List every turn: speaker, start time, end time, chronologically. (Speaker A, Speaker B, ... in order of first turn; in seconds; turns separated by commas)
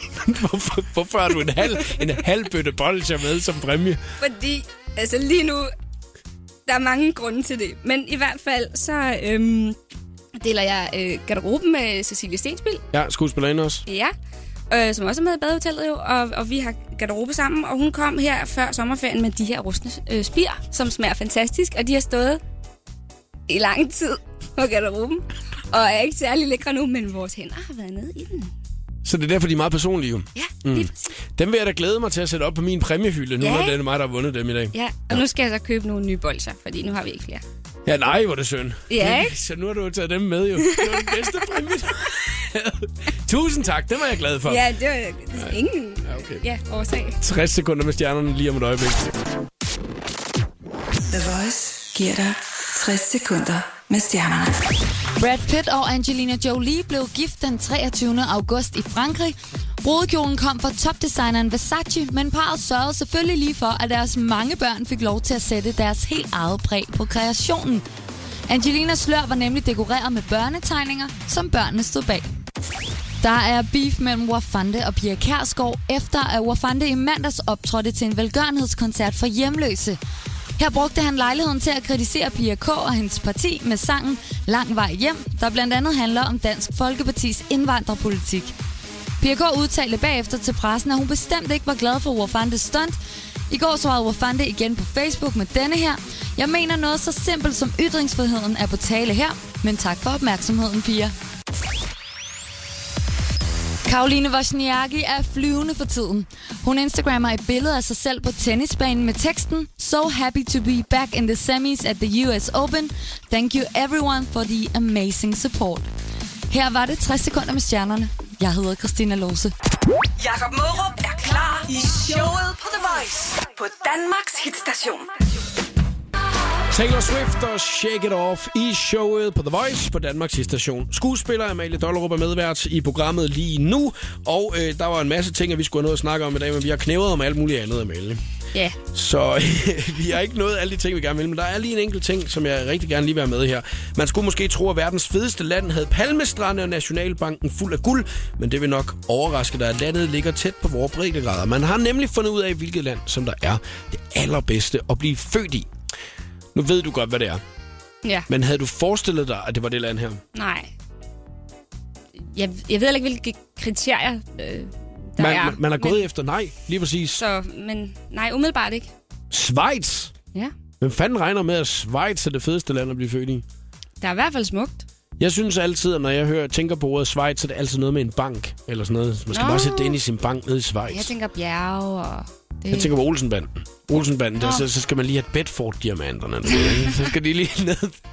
Speaker A: 0.1-4.0, Speaker B: 1.8-2.1, Speaker B: 4.2-5.7, Speaker B: 6.7-9.8, Speaker B: 10.3-12.8, Speaker A: 12.9-13.8, Speaker B: 13.8-14.1, Speaker B: 14.7-22.4, Speaker B: 23.5-28.5, Speaker A: 29.0-35.2, Speaker B: 30.3-31.1, Speaker B: 33.4-33.8, Speaker B: 34.7-37.4, Speaker A: 37.9-44.7, Speaker B: 38.9-39.4, Speaker B: 40.6-41.2, Speaker B: 44.5-47.2, Speaker A: 45.3-46.4, Speaker A: 47.2-49.2, Speaker C: 51.1-54.6, Speaker D: 55.2-67.8, Speaker D: 68.5-72.2, Speaker D: 73.2-80.0, Speaker D: 80.6-88.5, Speaker D: 89.2-93.0, Speaker D: 93.5-101.1, Speaker D: 103.8-115.9, Speaker D: 116.5-119.5, Speaker C: 120.2-125.2, Speaker A: 126.7-138.2, Speaker A: 138.9-155.7, Speaker A: 156.5-157.4, Speaker A: 158.3-160.2, Speaker B: 160.3-160.7, Speaker B: 162.2-166.1, Speaker A: 165.2-167.2, Speaker B: 167.2-168.9, Speaker A: 169.3-170.1, Speaker A: 170.8-173.4, Speaker B: 174.0-174.8, Speaker A: 175.2-181.1, Speaker B: 179.3-180.0, Speaker B: 180.9-182.9, Speaker A: 182.7-188.0, Speaker B: 186.5-187.1